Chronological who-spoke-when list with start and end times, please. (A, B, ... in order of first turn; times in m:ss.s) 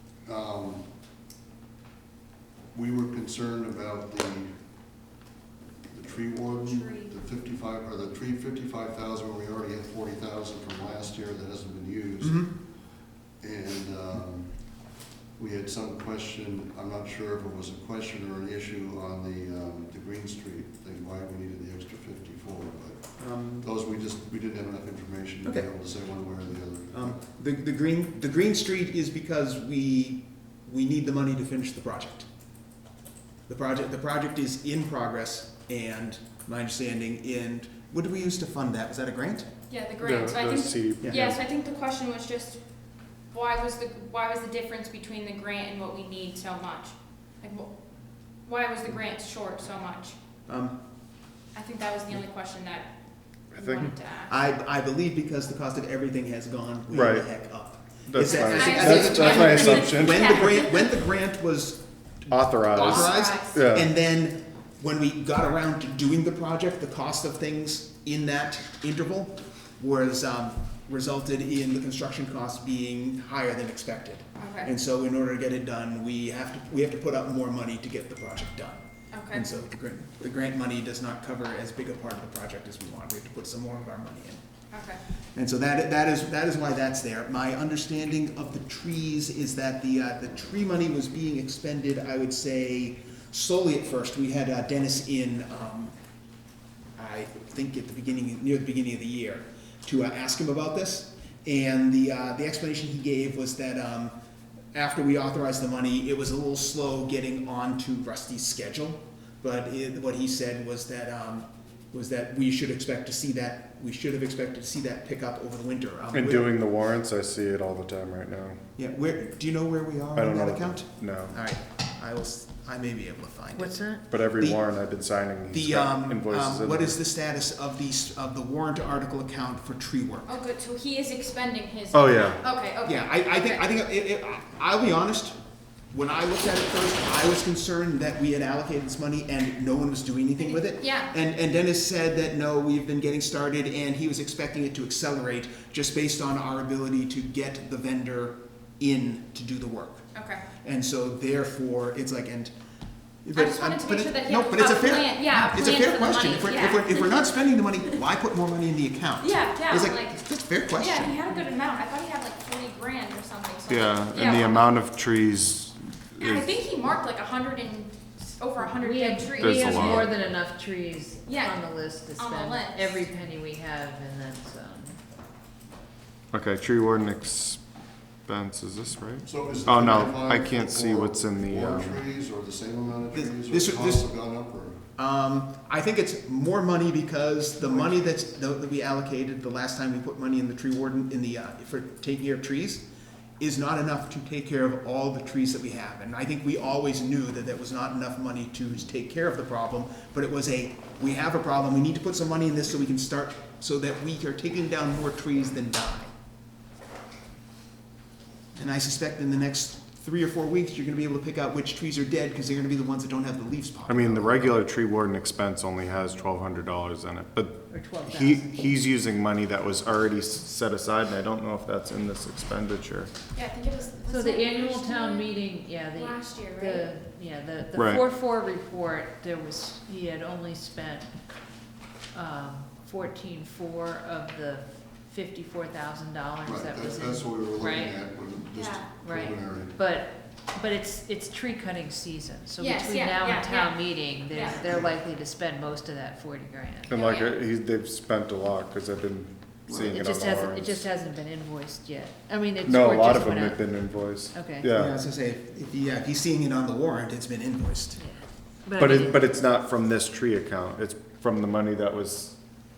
0:00.3-0:00.9 A
0:02.7-0:04.6 A
0:05.9-0:27.2 A
0:06.5-0:07.2 B
0:12.2-0:12.5 C
0:23.2-0:23.7 C
0:26.9-0:32.3 C
0:33.5-0:39.5 C
0:39.7-0:42.6 B
0:40.0-0:41.4 D
0:41.0-0:41.4 C
0:43.3-0:47.8 B
0:48.4-0:50.2 B
0:50.5-0:50.8 C
0:51.5-0:53.0 B
0:53.5-0:54.3 B
0:53.6-0:53.9 D
0:53.8-1:24.4 C
0:56.9-0:57.3 D
0:58.1-1:00.6 D
0:58.2-1:00.9 B
1:02.3-1:03.9 D
1:02.8-1:03.6 B
1:14.4-1:14.7 B
1:19.1-1:19.5 B
1:24.7-1:25.0 B
1:25.3-1:36.0 C
1:37.0-1:44.1 C
1:44.7-1:56.6 C
1:56.1-1:58.6 D
1:58.8-2:04.6 C
2:00.2-2:01.4 D
2:03.6-2:04.1 E
2:04.1-2:07.0 D
2:05.5-2:10.3 C
2:10.3-2:13.6 B
2:11.9-2:12.4 D
2:12.8-2:15.4 C
2:15.9-2:32.5 C
2:20.4-2:21.1 B
2:30.1-2:30.5 B
2:33.2-2:41.2 C
2:33.4-2:37.3 B
2:39.2-2:40.2 B
2:40.8-2:44.8 B
2:43.7-2:46.5 D
2:46.2-2:50.1 B
2:48.8-2:55.0 E
2:49.4-2:50.1 D
2:51.3-2:51.6 B
2:52.2-2:53.1 B
2:56.3-2:57.6 D
2:58.3-3:02.0 D
2:59.2-3:04.8 A
3:03.1-3:04.0 C
3:05.0-3:12.9 C
3:13.4-3:26.1 C
3:28.6-3:34.5 C
3:33.9-3:43.1 D
3:37.7-3:38.8 E
3:43.3-3:45.3 B
3:44.1-3:51.1 E
3:45.9-3:46.9 B
3:47.7-3:48.0 D
3:52.1-3:58.0 E
3:56.4-3:59.8 A
3:58.5-3:59.0 B
3:59.0-4:07.2 E
4:02.6-4:04.7 B
4:04.6-4:04.9 A
4:06.9-4:10.8 D
4:07.0-4:07.4 B
4:09.7-4:14.7 E
4:12.6-4:15.0 D
4:14.7-4:18.0 C
4:18.0-4:19.2 E
4:18.8-4:22.4 D